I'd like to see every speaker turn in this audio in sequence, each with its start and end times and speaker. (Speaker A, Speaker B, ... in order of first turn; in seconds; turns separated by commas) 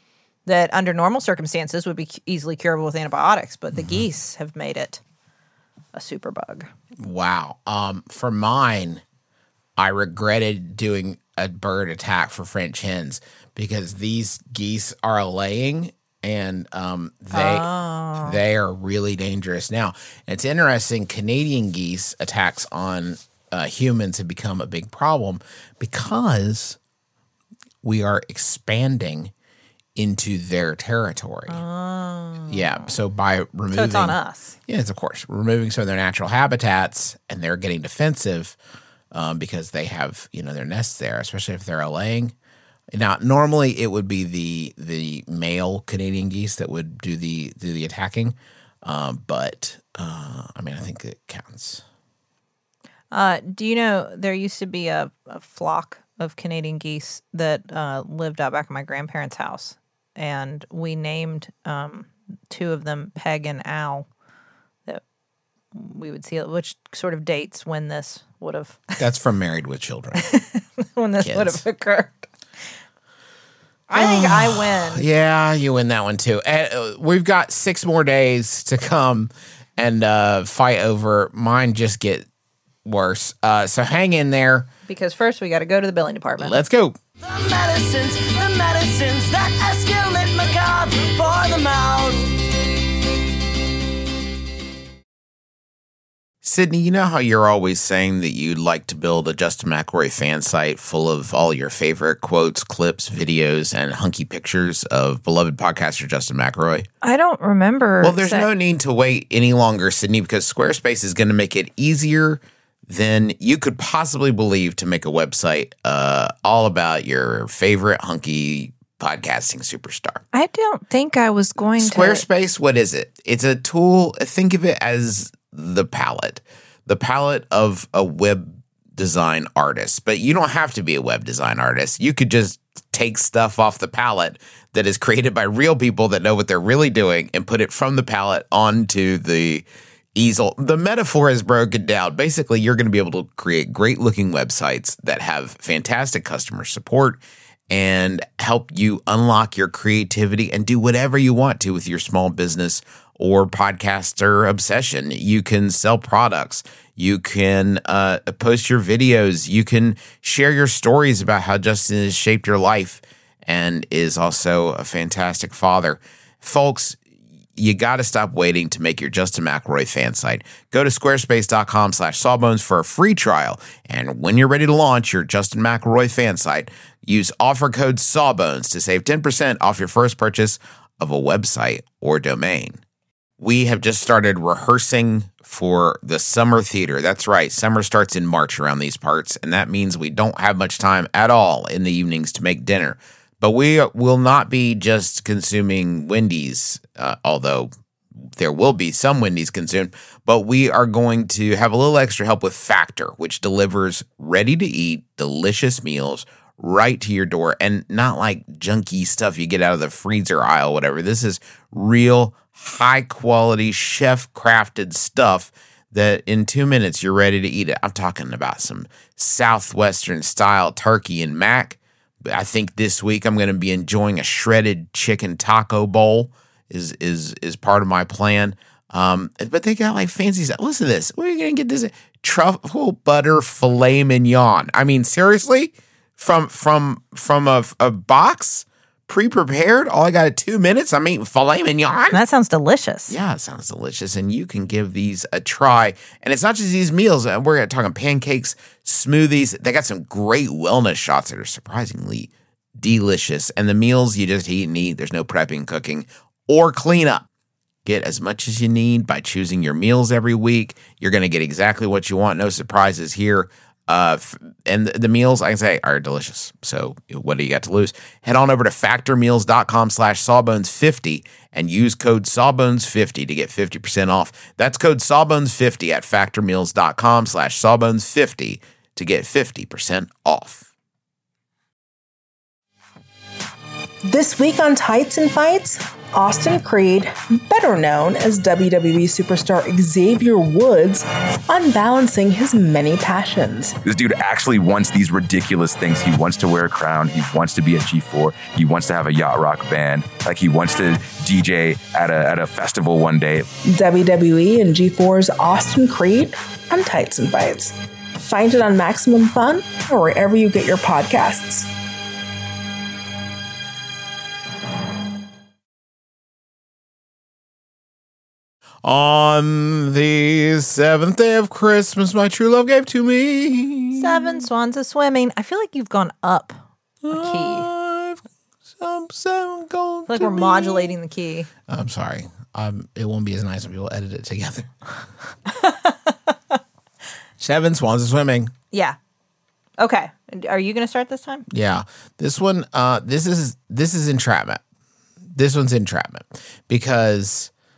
Speaker A: 0.5-5.0, Speaker B: 3.7-4.0, Speaker A: 5.9-6.7, Speaker B: 7.0-9.0, Speaker B: 9.8-17.7, Speaker A: 17.3-18.4, Speaker B: 18.2-26.8, Speaker B: 27.8-29.3, Speaker B: 29.9-31.6, Speaker A: 31.5-32.9, Speaker B: 32.5-38.6, Speaker A: 33.7-34.5, Speaker B: 39.1-42.3, Speaker B: 42.9-51.8, Speaker A: 53.1-64.1, Speaker A: 65.7-69.0, Speaker B: 69.0-70.2, Speaker A: 70.2-72.3, Speaker B: 71.2-71.6, Speaker A: 73.9-75.1, Speaker B: 73.9-82.3, Speaker B: 82.8-84.7, Speaker A: 84.9-86.6, Speaker B: 86.4-87.0, Speaker C: 87.2-92.3, Speaker B: 96.4-106.9, Speaker A: 107.0-108.5, Speaker B: 108.0-120.2, Speaker A: 120.3-122.2, Speaker B: 121.8-167.0, Speaker B: 167.6-182.8, Speaker B: 183.4-197.7, Speaker B: 198.4-242.2, Speaker A: 242.1-243.1, Speaker B: 243.1-257.3, Speaker B: 257.8-280.7, Speaker D: 284.1-293.8, Speaker E: 293.8-303.5, Speaker D: 303.6-311.7, Speaker B: 318.8-324.4, Speaker A: 323.9-327.7, Speaker B: 327.0-328.2, Speaker B: 328.7-331.0, Speaker A: 330.1-331.5, Speaker B: 331.7-334.7, Speaker A: 335.5-336.3, Speaker B: 337.4-338.5, Speaker A: 338.7-339.0, Speaker A: 339.8-341.4, Speaker B: 341.5-344.6, Speaker B: 345.3-347.5